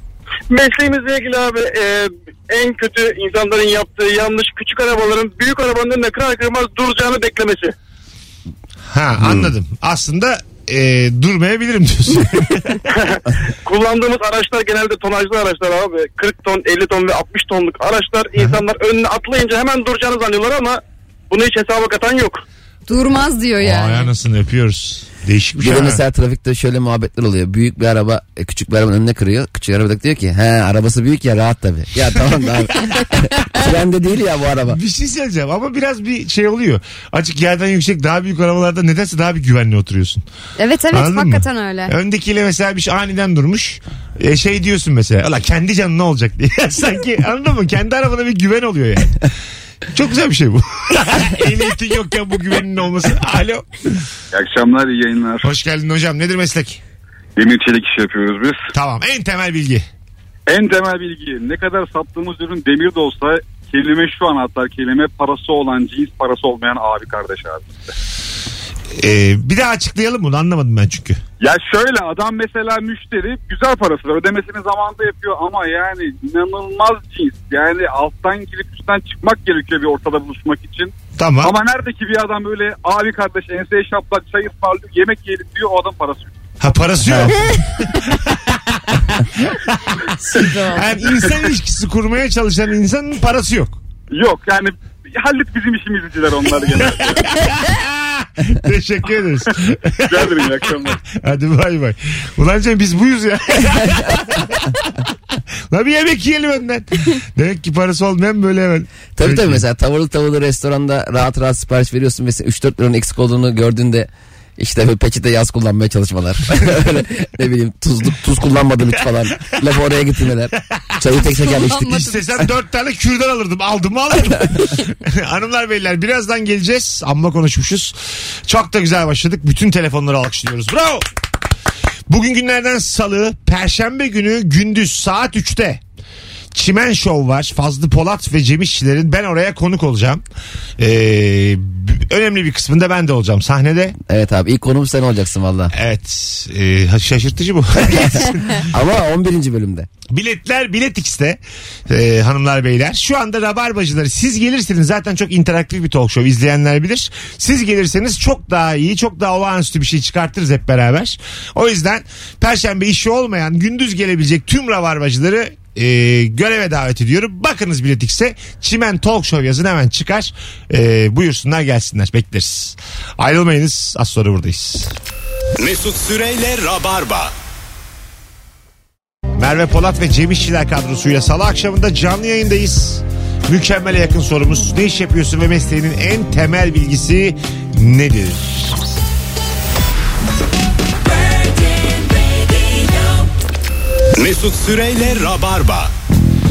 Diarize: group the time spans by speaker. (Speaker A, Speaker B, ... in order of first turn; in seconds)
Speaker A: 0.5-7.7, 12.9-22.4, 58.0-58.5
Speaker B: 8.9-12.8, 23.6-26.0, 34.7-40.2, 40.9-49.3, 49.9-54.0, 55.4-56.8, 58.7-59.9, 68.9-71.2, 81.2-81.5, 86.6-93.8, 97.0-104.9, 105.7-109.6, 121.8-131.1, 132.1-135.8, 136.5-140.2, 140.8-143.9, 145.7-148.7, 150.1-174.9, 179.4-188.8
Speaker C: 9.2-9.5, 25.6-34.8, 87.0-87.3, 109.2-122.1, 144.1-145.7, 148.6-149.9
Speaker D: 22.9-24.1, 40.6-41.9, 90.2-90.9, 121.2-122.4
Speaker E: 54.3-55.4, 57.4-58.0, 60.5-67.9, 71.4-86.3, 94.1-97.2, 100.1-101.0
Speaker F: 175.6-177.3, 194.2-195.9